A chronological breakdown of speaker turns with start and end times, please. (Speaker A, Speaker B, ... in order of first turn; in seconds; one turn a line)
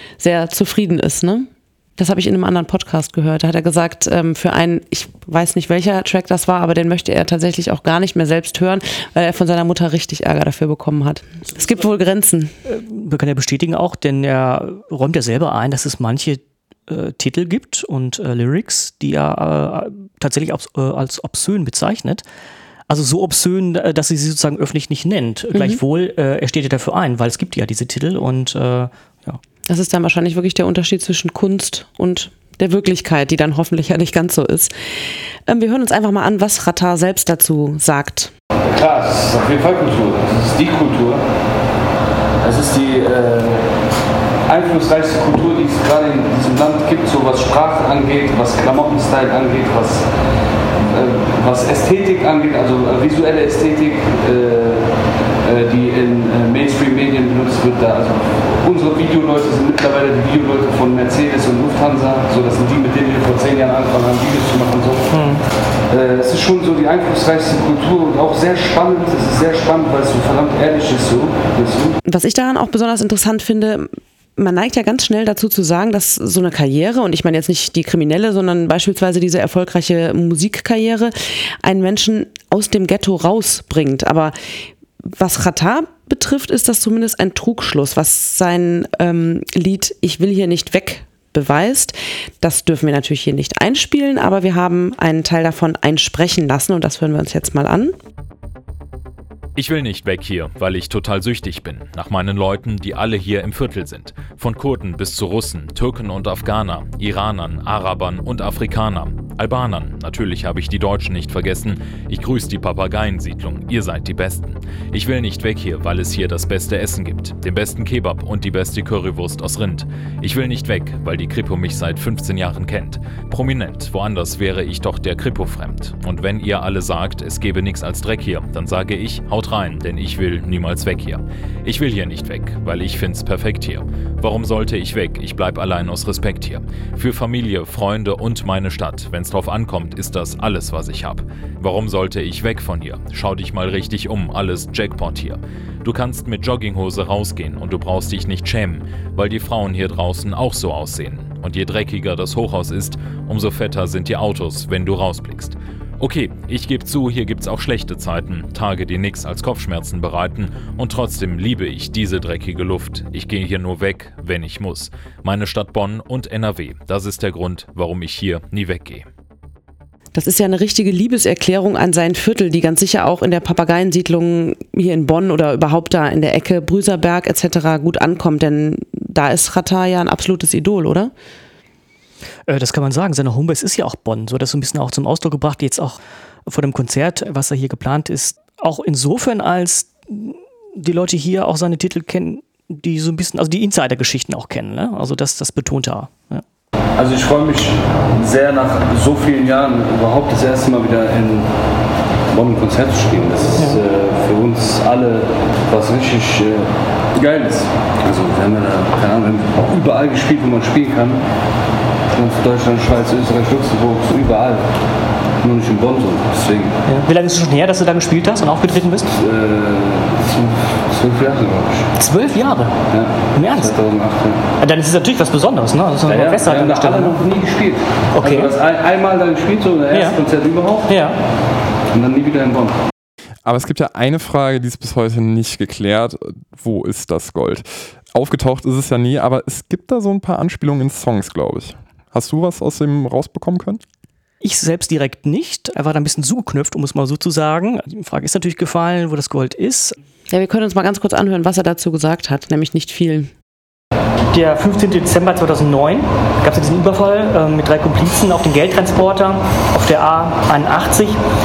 Speaker A: 0.2-12.6
Speaker B: 12.7-22.2
Speaker B: 22.9-29.4
Speaker A: 25.5-25.8
Speaker A: 29.7-34.7
Speaker A: 35.5-38.3
Speaker C: 38.6-41.2
Speaker C: 42.4-43.7
Speaker C: 44.5-50.1
Speaker C: 50.8-54.9
Speaker C: 55.4-65.2
Speaker B: 65.1-65.4
Speaker C: 65.9-72.0
Speaker A: 72.0-84.3
Speaker A: 85.1-97.9
Speaker D: 99.6-169.1
Speaker A: 170.1-181.1
Speaker B: 182.5-196.4
Speaker C: 197.0-201.5
Speaker C: 202.3-211.2
Speaker C: 212.1-214.6
Speaker C: 215.4-216.8
Speaker B: 216.9-219.1
Speaker C: 219.1-221.9
Speaker B: 222.0-222.8
Speaker C: 222.9-224.4
Speaker B: 223.3-223.7
Speaker B: 224.6-227.2
Speaker C: 226.1-230.9
Speaker B: 228.1-228.6
Speaker B: 229.9-230.2
Speaker B: 230.9-231.2
Speaker C: 231.9-232.8
Speaker E: 233.4-243.8
Speaker B: 244.4-249.9
Speaker A: 250.3-253.3
Speaker B: 254.3-261.2